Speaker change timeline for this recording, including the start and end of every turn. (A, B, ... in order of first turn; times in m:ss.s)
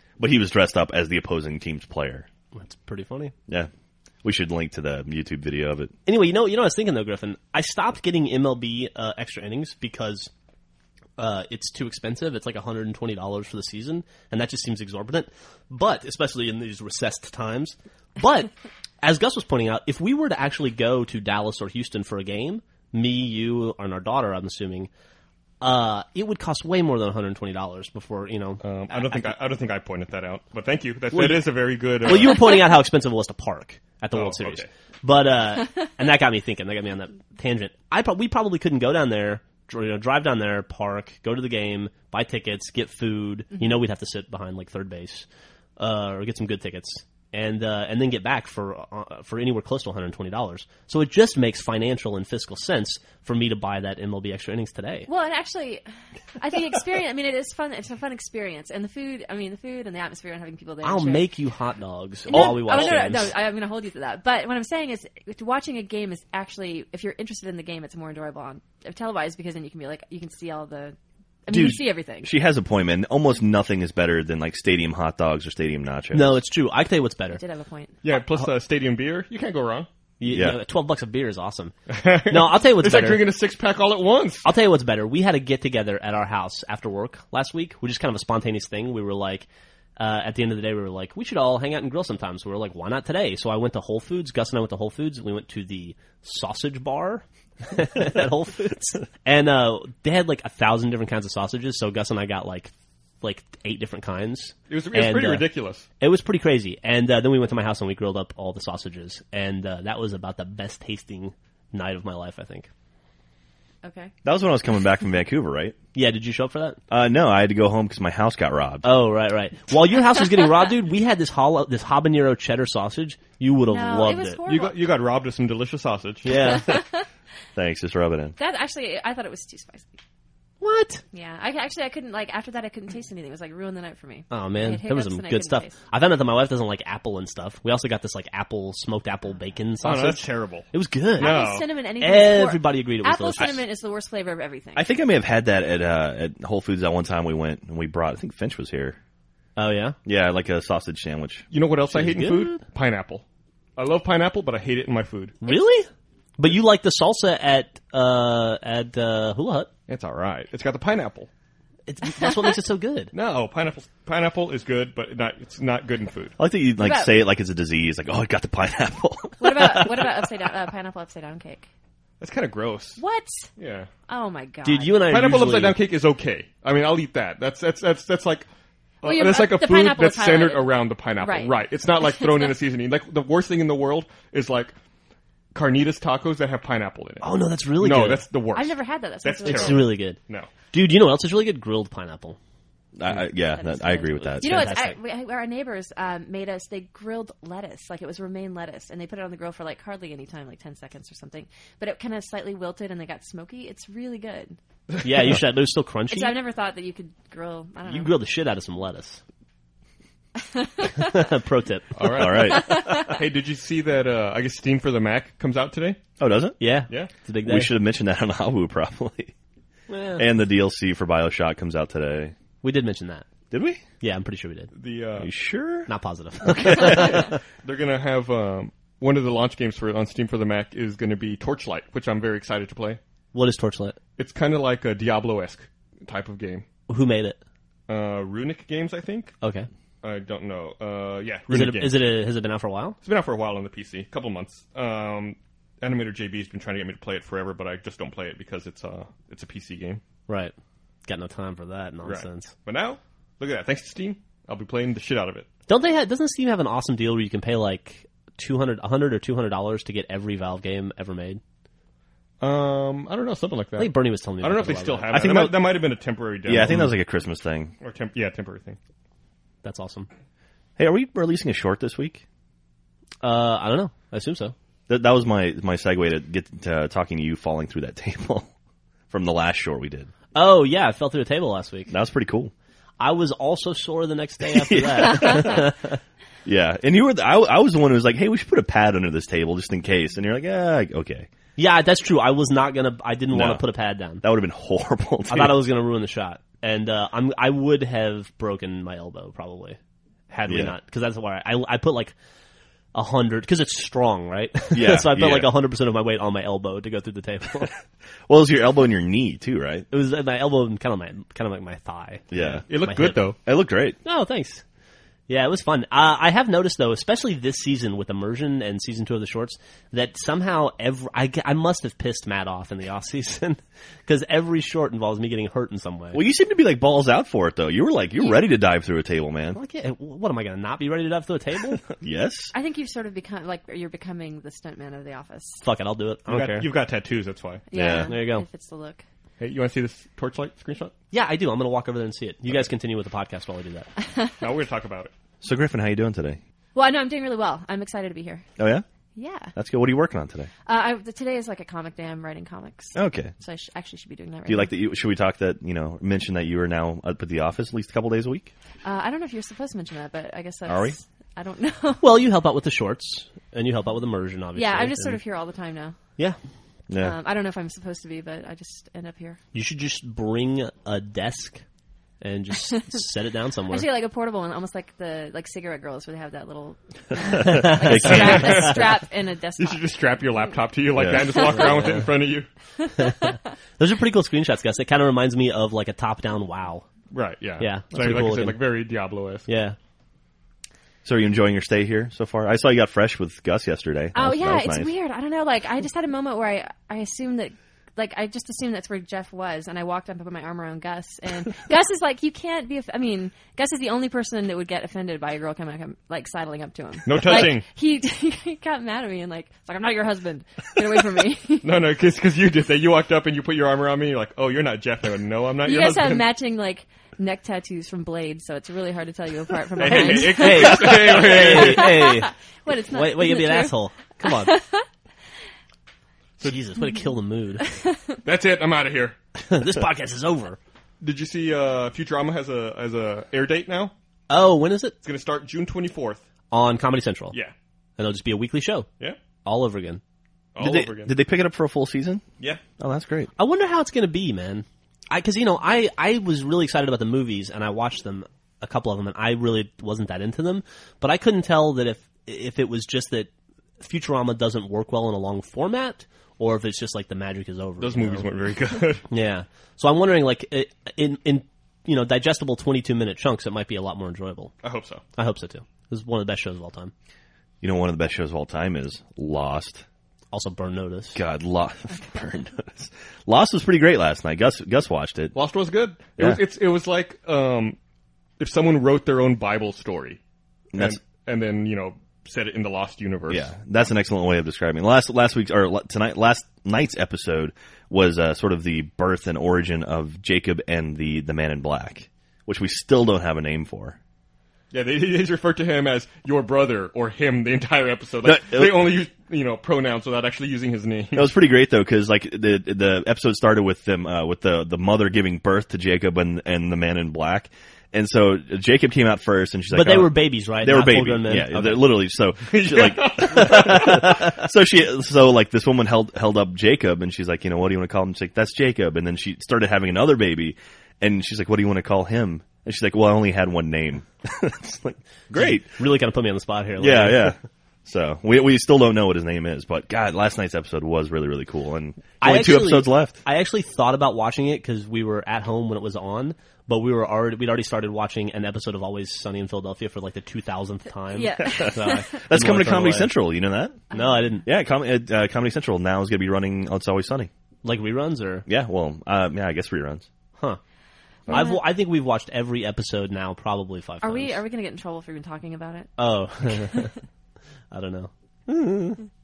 0:00.2-0:02.3 A
0:02.5-0:03.3 B
0:04.2-0:05.9 A
0:06.0-0:10.3 B
0:11.2-0:18.5 B
0:19.0-0:24.9 B
0:25.6-0:29.2 B
0:28.6-0:32.6 C
0:31.1-0:45.2 B
0:34.1-0:34.7 C
0:45.8-0:55.1 B
0:55.1-0:55.8 D
0:56.4-1:01.2 D
1:00.8-1:03.3 B
1:02.3-1:12.3 D
1:11.5-1:16.4 A
1:16.1-1:17.4 B
1:17.3-1:18.0 D
1:18.0-1:19.9 C
1:20.2-1:23.3 B
1:20.3-1:20.6 A
1:21.9-1:24.4 C
1:24.4-1:42.7 B
1:43.2-1:45.5 B
1:44.7-1:45.8 C
1:46.0-1:52.7 B
1:53.8-1:54.1 D
1:54.2-1:55.8 A
1:55.9-1:56.8 B
1:56.9-1:58.9 A
1:58.8-2:04.4 B
2:03.7-2:04.8 D
2:04.4-2:06.3 C
2:06.2-2:06.8 B
2:06.4-2:07.1 D
2:07.6-2:08.3 A
2:08.4-2:10.0 D
2:10.6-2:11.0 B
2:11.1-2:15.8 D
2:14.3-2:23.6 B
2:19.8-2:21.6 C
2:21.2-2:24.9 D
2:24.8-2:29.0 A
2:29.6-2:30.0 B
2:30.0-2:31.5 A
2:31.5-2:33.2 C
2:31.9-2:32.6 B
2:33.8-2:35.4 C
2:35.4-2:39.7 B
2:39.9-2:41.3 C
2:41.9-2:43.1 B
2:43.1-2:46.4 C
2:46.4-2:50.2 A
2:46.8-2:47.2 D
2:49.4-2:51.7 D
2:52.2-2:53.0 C
2:53.0-2:53.5 D
2:53.6-2:53.9 C
2:54.1-2:55.0 D
2:54.6-2:55.8 B
2:55.1-2:58.4 C
2:59.0-3:04.7 C
2:59.0-3:01.6 D
3:05.5-3:10.5 C
3:07.2-3:08.2 B
3:08.5-3:09.9 D
3:09.4-3:10.2 B
3:10.7-3:12.4 B
3:12.9-3:14.7 A
3:13.5-3:24.6 D
3:14.4-3:14.9 B
3:25.0-3:26.4 B
3:26.1-3:28.1 D
3:27.9-3:29.2 B
3:30.5-3:31.0 D
3:30.9-3:32.3 B
3:32.0-3:36.0 C
3:32.1-3:33.0 A
3:32.7-3:33.0 D
3:36.2-3:36.6 A
3:36.6-3:37.7 B
3:37.4-3:39.3 A
3:39.9-3:40.2 B
3:40.2-3:42.3 A
3:42.6-3:43.2 B
3:43.5-3:43.8 A
3:44.0-3:44.7 B
3:44.7-3:45.3 C
3:45.2-3:45.9 A
3:45.9-3:47.3 B
3:46.4-3:47.3 A
3:46.8-3:53.0 C
3:53.3-3:54.0 B
3:54.2-3:56.6 C
3:56.9-3:57.4 B
3:57.9-3:59.3 C
3:59.4-3:59.7 B
4:00.0-4:02.0 C
4:01.5-4:03.0 B
4:03.0-4:10.0 C
4:10.3-4:10.5 B
4:11.0-4:12.5 B
4:12.0-4:15.5 C
4:15.7-4:21.4 B
4:22.4-4:26.9 C
4:23.8-4:25.2 B
4:25.1-4:25.7 A
4:26.4-4:27.8 A
4:27.8-4:28.8 C
4:29.6-4:30.1 B
4:30.8-4:32.2 A
4:33.2-4:34.5 B
4:34.9-4:38.5 A
4:39.1-4:40.1 A
4:40.3-4:41.9 B
4:41.9-4:42.5 A
4:43.0-4:46.0 B
4:44.7-4:45.6 A
4:46.4-4:51.3 A
4:51.6-4:54.2 B
4:53.3-4:53.6 A
4:54.2-4:55.6 A
4:55.3-4:59.8 B
5:00.3-5:02.1 B
5:00.5-5:00.7 A
5:02.9-5:07.7 B
5:04.7-5:05.5 A
5:08.3-5:09.9 A
5:09.9-5:13.3 B
5:12.3-5:12.6 A
5:12.7-5:13.4 C
5:13.4-5:14.0 A
5:14.0-5:14.6 B
5:15.3-5:26.2 B
5:26.1-5:29.6 A
5:29.5-5:31.8 B
5:32.0-5:32.5 A
5:32.5-5:35.6 D
5:35.6-5:36.7 B
5:36.3-5:37.6 C
5:37.7-5:39.0 D
5:37.7-5:38.1 A
5:38.0-5:38.4 B
5:39.4-5:40.9 C
5:41.1-5:43.9 B
5:44.4-5:45.1 C
5:45.4-5:46.4 A
5:46.7-5:48.4 D
5:48.6-5:48.8 A
5:49.2-5:49.5 D
5:49.5-5:50.5 A
5:50.6-5:54.7 D
5:52.9-5:53.3 A
5:54.4-5:58.5 A
5:58.8-6:02.0 D
6:00.7-6:01.0 A
6:02.0-6:05.2 B
6:04.5-6:06.0 D
6:06.9-6:07.2 A
6:07.0-6:09.4 D
6:09.5-6:11.6 B
6:12.2-6:13.9 B
6:13.7-6:19.8 D
6:17.5-6:18.6 B
6:17.5-6:18.7 A
6:18.1-6:18.8 C
6:19.6-6:22.5 C
6:20.9-6:21.8 A
6:21.5-6:22.1 B
6:22.8-6:23.3 D
6:23.0-6:26.8 B
6:27.1-6:29.5 C
6:27.6-6:28.6 B
6:29.5-6:29.8 B
6:31.0-6:34.9 A
6:34.1-6:51.7 D
6:47.0-6:47.6 C
6:51.6-6:56.3 C
6:55.6-7:04.8 D
6:59.8-7:02.1 C
6:59.8-7:02.3 B
7:02.9-7:04.5 B
7:06.4-7:07.6 B
7:07.6-7:08.1 D
7:08.2-7:09.2 C
7:09.5-7:10.6 B
7:11.0-7:13.9 C
7:14.3-7:15.0 B
7:15.0-7:16.2 C
7:16.5-7:17.3 B
7:18.0-7:18.9 B
7:19.4-7:20.0 B
7:20.5-7:21.1 C
7:20.6-7:22.2 A
7:22.8-7:23.3 A
7:23.4-7:38.3 B
7:37.8-7:39.0 C
7:39.1-7:44.5 B
7:44.6-7:45.0 C
7:45.2-7:46.9 B
7:47.6-7:49.8 A
7:50.3-7:51.2 B
7:51.1-7:55.3 A
7:55.3-7:57.8 C
7:58.4-8:00.2 C
8:00.7-8:01.0 A
8:00.7-8:03.5 C
8:03.3-8:14.0 A
8:14.7-8:21.3 C
8:18.2-8:19.0 A
8:21.1-8:45.7 A
8:29.7-8:31.9 B
8:32.5-8:34.1 C
8:45.3-8:47.4 B
8:46.8-8:53.2 A
8:52.2-9:03.1 B
9:01.1-9:02.1 D
9:01.6-9:03.8 A
9:03.9-9:04.4 D
9:03.9-9:04.4 B
9:04.4-9:07.3 A
9:07.6-9:08.4 B
9:08.5-9:10.0 A
9:11.3-9:14.4 B
9:11.3-9:11.6 D
9:14.0-9:15.9 D
9:16.0-9:16.9 B
9:16.4-9:16.9 D
9:17.7-9:19.0 B